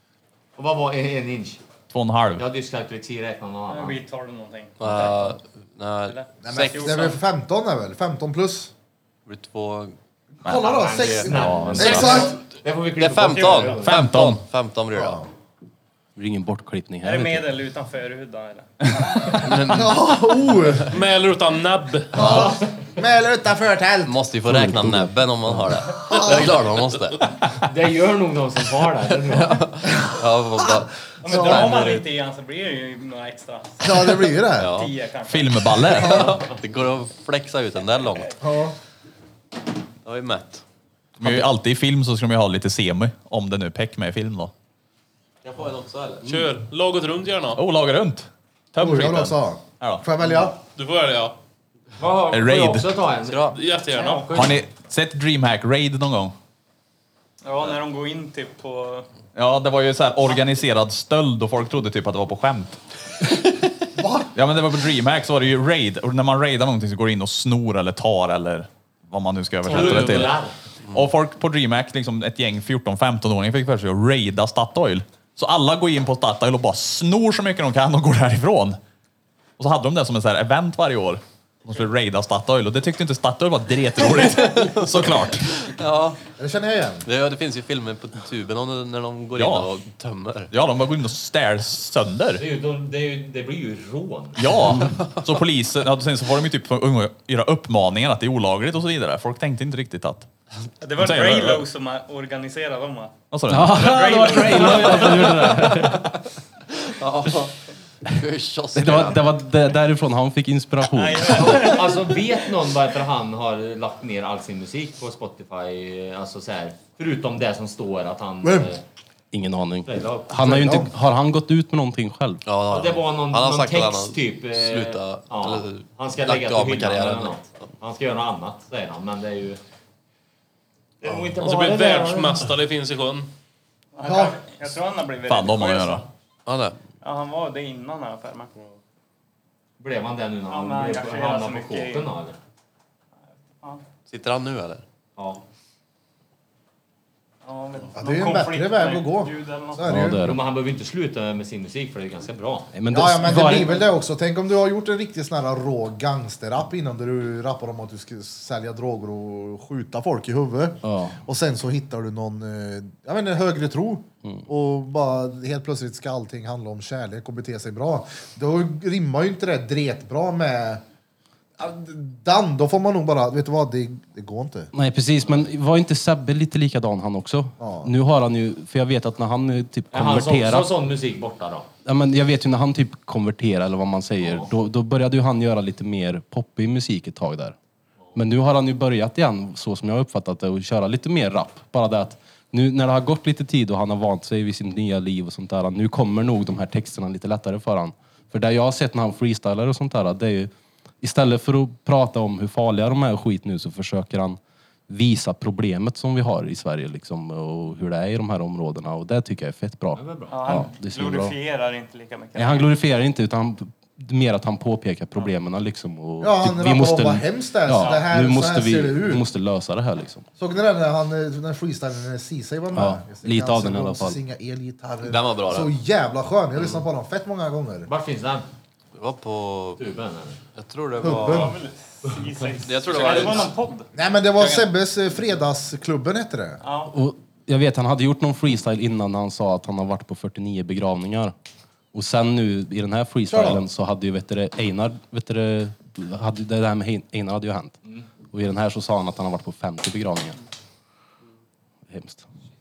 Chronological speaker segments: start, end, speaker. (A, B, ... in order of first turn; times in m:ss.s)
0:00.6-0:01.6 A
0:01.9-0:02.4 B
0:02.4-0:04.0 A
0:03.7-0:04.8 C
0:04.8-0:07.1 D
0:04.8-0:05.3 A
0:06.0-0:07.2 C
0:06.4-0:08.7 E
0:09.2-0:10.0 D
0:10.4-0:12.4 E
0:10.5-0:14.1 A
0:11.0-0:11.2 D
0:11.2-0:12.2 B
0:11.8-0:12.3 D
0:13.0-0:15.2 D
0:13.8-0:14.4 B
0:14.9-0:15.3 E
0:16.2-0:17.5 F
0:17.0-0:19.2 C
0:19.3-0:20.8 D
0:19.6-0:21.0 E
0:20.9-0:22.5 G
0:22.1-0:22.7 A
0:22.1-0:24.2 E
0:24.0-0:27.5 D
0:24.4-0:25.8 F
0:26.1-0:26.5 E
0:27.6-0:29.7 A
0:29.2-0:32.0 D
0:31.2-0:36.0 C
0:31.3-0:31.8 E
0:33.8-0:34.8 E
0:34.6-0:34.9 D
0:35.2-0:36.4 B
0:35.8-0:36.4 E
0:35.9-0:38.4 D
0:38.4-0:38.8 E
0:40.0-0:40.6 D
0:41.2-0:44.5 B
0:45.4-0:46.5 D
0:46.2-0:47.6 G
0:47.6-0:50.0 B
0:48.8-0:50.6 E
0:50.7-0:51.4 G
0:52.0-0:54.6 A
0:52.3-0:52.9 B
0:53.2-0:53.6 D
0:53.5-0:54.2 G
0:54.0-0:54.4 C
0:54.3-0:56.3 B
0:57.4-0:59.1 C
0:59.3-1:02.8 B
1:04.0-1:04.3 E
1:04.3-1:18.8 B
1:09.7-1:10.6 A
1:19.6-1:25.6 B
1:24.5-1:24.8 D
1:25.6-1:26.2 D
1:26.4-1:27.0 E
1:27.0-1:30.5 D
1:29.4-1:29.7 B
1:30.5-1:32.4 B
1:32.4-1:34.5 A
1:34.4-1:40.3 B
1:40.8-1:43.1 C
1:41.0-1:41.6 B
1:43.3-1:43.9 B
1:43.5-1:46.2 F
1:43.7-1:45.8 C
1:46.8-1:47.5 D
1:48.1-1:49.4 D
1:48.7-1:51.6 F
1:50.9-1:52.2 C
1:51.3-1:58.8 A
1:58.4-1:58.7 E
1:59.3-2:02.4 F
1:59.8-2:00.9 A
2:00.5-2:00.9 E
2:02.4-2:07.4 D
2:02.7-2:09.6 A
2:11.0-2:12.4 A
2:11.4-2:13.3 G
2:13.9-2:16.0 C
2:14.0-2:14.4 E
2:15.2-2:16.0 B
2:16.4-2:16.8 D
2:17.0-2:18.8 C
2:19.8-2:22.4 A
2:20.5-2:22.1 C
2:24.1-2:24.8 D
2:25.2-2:25.4 A
2:27.4-2:29.9 C
2:27.9-2:30.2 E
2:29.8-2:30.4 F
2:30.2-2:32.7 A
2:32.7-2:33.8 F
2:32.9-2:50.8 E
2:40.8-2:41.2 F
2:51.6-2:54.7 E
2:54.7-3:00.7 F
2:57.6-2:57.9 E
2:59.9-3:01.7 A
3:01.8-3:07.5 F
3:04.2-3:04.5 A
3:08.1-3:31.3 F
3:30.0-3:30.5 A
3:30.3-3:32.7 C
3:32.4-3:40.2 F
3:36.2-3:39.2 E
3:40.4-3:47.9 E
3:42.7-3:44.2 F
3:45.0-3:45.7 D
3:47.8-3:48.5 A
3:48.9-3:49.8 D
3:49.8-3:50.4 A
3:50.5-3:51.5 D
3:51.0-3:51.5 E
3:51.2-3:54.6 C
3:52.6-3:53.5 D
3:53.9-3:56.6 E
3:56.6-3:56.9 C
3:56.9-4:01.3 F
4:01.9-4:07.8 F
4:03.3-4:03.6 E
4:08.3-4:10.4 F
4:11.9-4:12.2 F